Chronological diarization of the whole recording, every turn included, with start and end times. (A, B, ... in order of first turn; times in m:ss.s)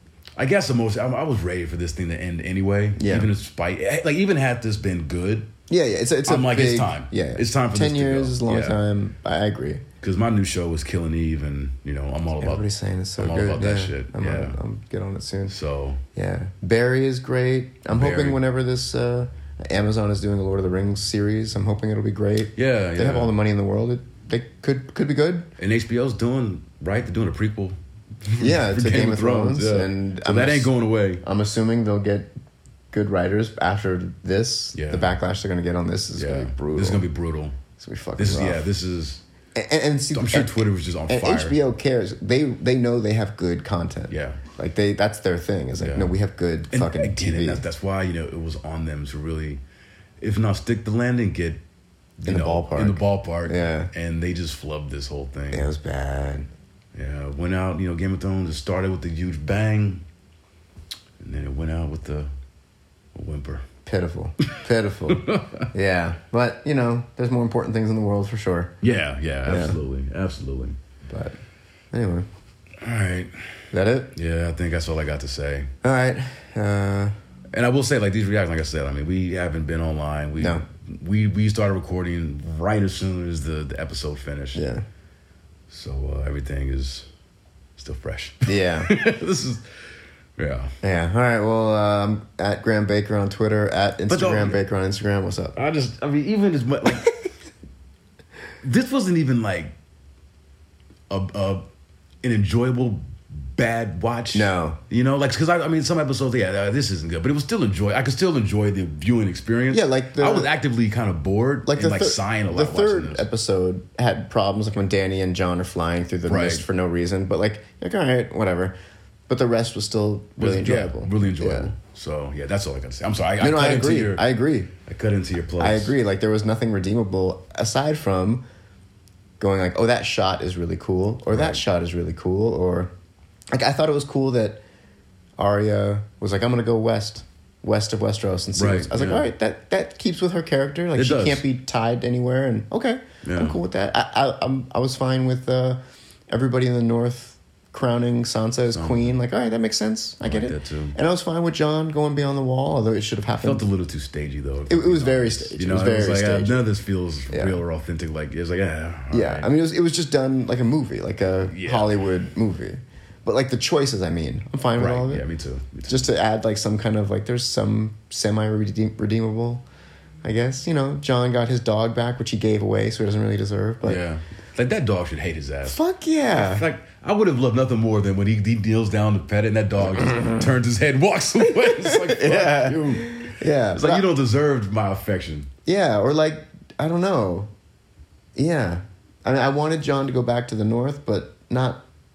0:00.4-0:05.5 A
0:03.0-0:03.3 B
0:05.7-0:09.8 B
0:06.2-0:08.8 A
0:10.0-0:14.6 A
0:12.4-0:15.5 B
0:15.5-0:16.0 A
0:16.1-0:25.5 B
0:17.9-0:18.4 A
0:22.5-0:23.4 A
0:25.6-0:31.2 A
0:28.4-0:32.3 B
0:32.9-0:37.0 B
0:34.7-0:35.2 A
0:36.2-0:37.6 A
0:37.8-0:38.7 B
0:38.2-0:39.2 A
0:39.6-0:47.6 B
0:40.1-0:41.6 A
0:44.1-0:44.4 A
0:45.8-0:46.2 A
0:46.7-0:49.6 A
0:50.2-0:51.6 A
0:52.2-0:55.7 A
0:52.2-0:53.9 B
0:55.5-0:56.5 B
0:56.9-1:00.0 A
1:01.2-1:02.3 A
1:03.1-1:03.6 A
1:03.8-1:08.7 B
1:05.1-1:05.7 A
1:08.8-1:10.8 A
1:09.4-1:09.8 B
1:11.1-1:11.4 B
1:11.9-1:12.3 B
1:12.8-1:13.4 A
1:13.7-1:14.1 B
1:14.1-1:15.7 A
1:15.8-1:17.2 B
1:17.5-1:24.6 A
1:20.4-1:20.6 B
1:24.5-1:24.8 B
1:25.7-1:27.1 A
1:27.8-1:29.7 A
1:28.4-1:28.9 B
1:30.4-1:30.7 A
1:30.8-1:35.6 B
1:34.1-1:34.6 A
1:35.5-1:37.1 A
1:38.6-1:39.7 A
1:41.1-1:41.7 A
1:42.2-1:53.3 A
1:44.3-1:44.8 B
1:49.7-1:50.5 B
1:51.7-1:58.7 B
1:56.2-1:56.6 A
1:59.3-2:01.7 B
2:00.4-2:04.2 A
2:03.4-2:04.7 B
2:04.8-2:06.0 A
2:05.6-2:08.4 B
2:09.4-2:12.9 B
2:11.3-2:11.6 A
2:13.5-2:14.6 B
2:15.4-2:33.6 B
2:18.6-2:19.3 A
2:20.9-2:21.4 A
2:23.2-2:23.6 A
2:28.7-2:29.1 A
2:30.2-2:31.0 A
2:33.4-2:39.5 A
2:34.7-2:36.6 B
2:37.3-2:37.6 B
2:39.1-2:45.2 B
2:41.4-2:42.0 A
2:44.8-2:46.1 A
2:45.9-2:49.6 B
2:50.2-2:54.0 B
2:53.8-2:55.8 A
2:55.6-2:56.6 B
2:56.3-3:05.5 A
2:59.9-3:00.5 B
3:01.4-3:04.0 B
3:05.6-3:07.5 B
3:08.4-3:11.8 B